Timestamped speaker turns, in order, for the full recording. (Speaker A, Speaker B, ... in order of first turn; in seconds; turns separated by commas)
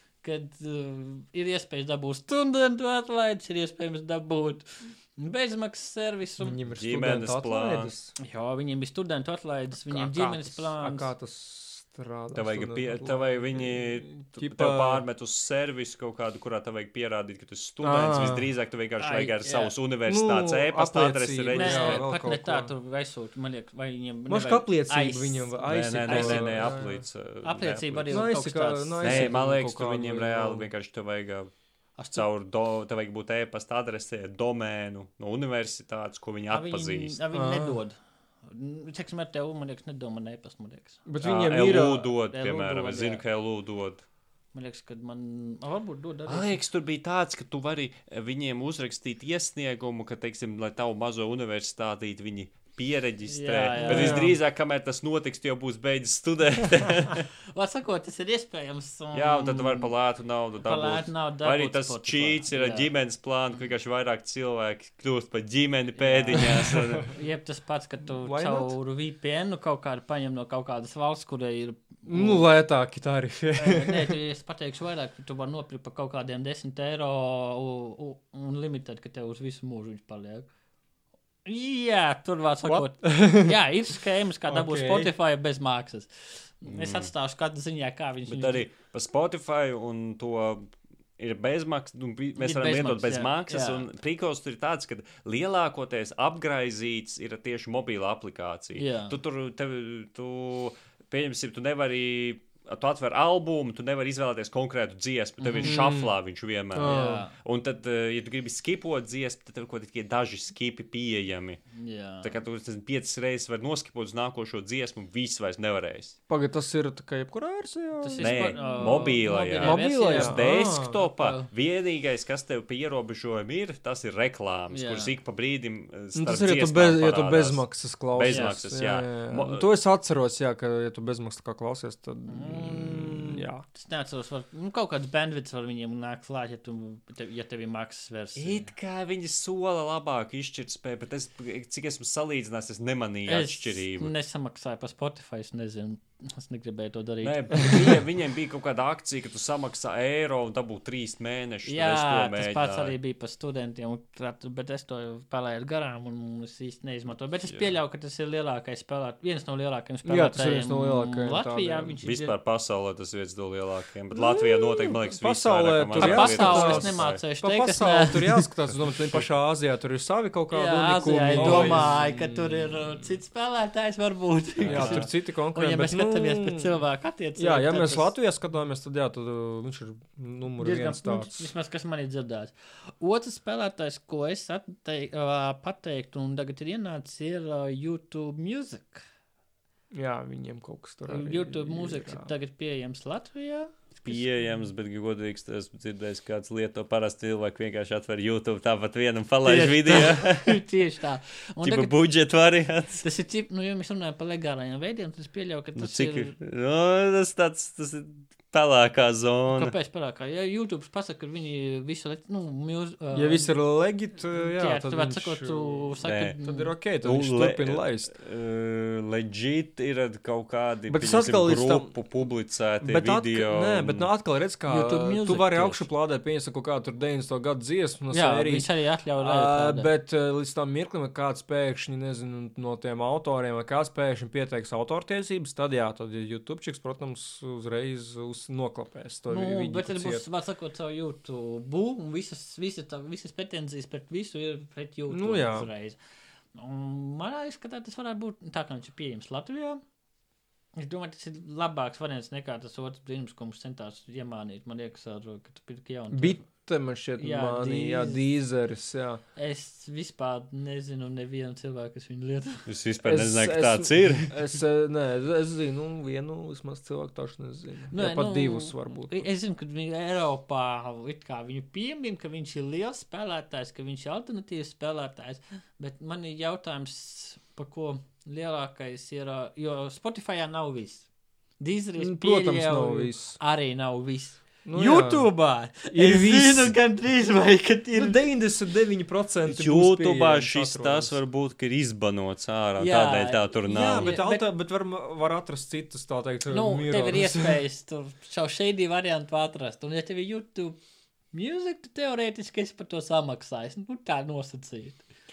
Speaker A: 0.2-6.6, Speaker B: 6.4-8.2, Speaker C: 6.7-7.9, Speaker A: 8.2-11.1, Speaker B: 9.8-15.0, Speaker C: 12.3-22.0, Speaker B: 17.8-18.5, Speaker A: 19.0-19.7, Speaker B: 20.1-22.7, Speaker A: 21.5-26.8, Speaker B: 24.3-27.1, Speaker C: 25.7-28.3, Speaker A: 27.4-29.4, Speaker B: 28.1-30.7, Speaker C: 29.0-31.5, Speaker A: 32.0-32.3, Speaker C: 32.1-37.2, Speaker A: 36.5-41.1, Speaker B: 37.3-37.8, Speaker B: 41.1-42.1, Speaker C: 41.2-44.0, Speaker A: 41.6-43.2, Speaker A: 44.5-46.6, Speaker C: 46.3-57.2, Speaker A: 53.3-54.3, Speaker B: 53.8-54.4, Speaker A: 57.4-59.9, Speaker C: 59.1-67.1, Speaker A: 60.6-62.9, Speaker A: 66.0-72.5, Speaker B: 66.3-67.1, Speaker B: 68.2-68.8, Speaker B: 72.1-74.2, Speaker A: 73.6-80.5, Speaker A: 81.5-88.7, Speaker B: 82.7-83.6, Speaker B: 84.5-85.1, Speaker C: 86.7-87.1, Speaker C: 88.3-111.6, Speaker A: 92.4-93.8, Speaker A: 98.8-99.2, Speaker A: 105.4-105.9, Speaker B: 105.6-106.1, Speaker B: 106.7-107.3, Speaker A: 106.8-107.3, Speaker A: 111.7-112.3, Speaker C: 112.2-116.2, Speaker B: 116.3-121.0, Speaker A: 118.0-121.5, Speaker C: 118.2-129.7, Speaker A: 124.7-125.2, Speaker B: 126.2-133.6, Speaker A: 128.2-128.5, Speaker A: 132.3-138.7, Speaker C: 138.4-144.1, Speaker A: 143.3-148.0, Speaker C: 147.2-152.9, Speaker A: 151.7-162.3, Speaker C: 157.5-157.8, Speaker B: 160.0-162.0, Speaker C: 162.0-167.2, Speaker B: 164.2-173.1, Speaker A: 166.0-168.5, Speaker A: 170.5-178.1, Speaker C: 171.4-171.8, Speaker C: 174.6-175.1, Speaker B: 174.7-176.7, Speaker B: 177.4-181.5, Speaker A: 180.6-189.0, Speaker B: 189.9-192.3, Speaker A: 191.1-194.2, Speaker C: 194.0-200.6, Speaker A: 199.4-202.0, Speaker C: 201.6-203.0, Speaker A: 203.0-206.3, Speaker C: 205.8-209.7, Speaker A: 209.5-213.6, Speaker B: 213.1-218.1, Speaker A: 214.3-216.8, Speaker C: 216.0-216.4, Speaker C: 217.0-224.1, Speaker B: 220.9-222.0, Speaker B: 222.8-228.7, Speaker A: 224.7-225.9, Speaker A: 228.1-229.9, Speaker B: 229.2-240.2, Speaker A: 239.3-246.0, Speaker B: 245.1-245.7, Speaker A: 246.5-249.8, Speaker A: 250.8-256.7, Speaker B: 256.1-259.2, Speaker A: 257.2-258.2, Speaker A: 259.4-262.7, Speaker C: 262.7-264.4, Speaker B: 263.0-269.3, Speaker A: 267.9-281.1, Speaker A: 281.6-288.2, Speaker B: 282.0-283.4, Speaker B: 284.6-285.3, Speaker B: 285.9-286.8, Speaker B: 288.0-291.2, Speaker C: 289.5-294.2, Speaker A: 292.8-294.5, Speaker B: 293.7-297.6, Speaker A: 296.5-300.8, Speaker A: 301.3-305.1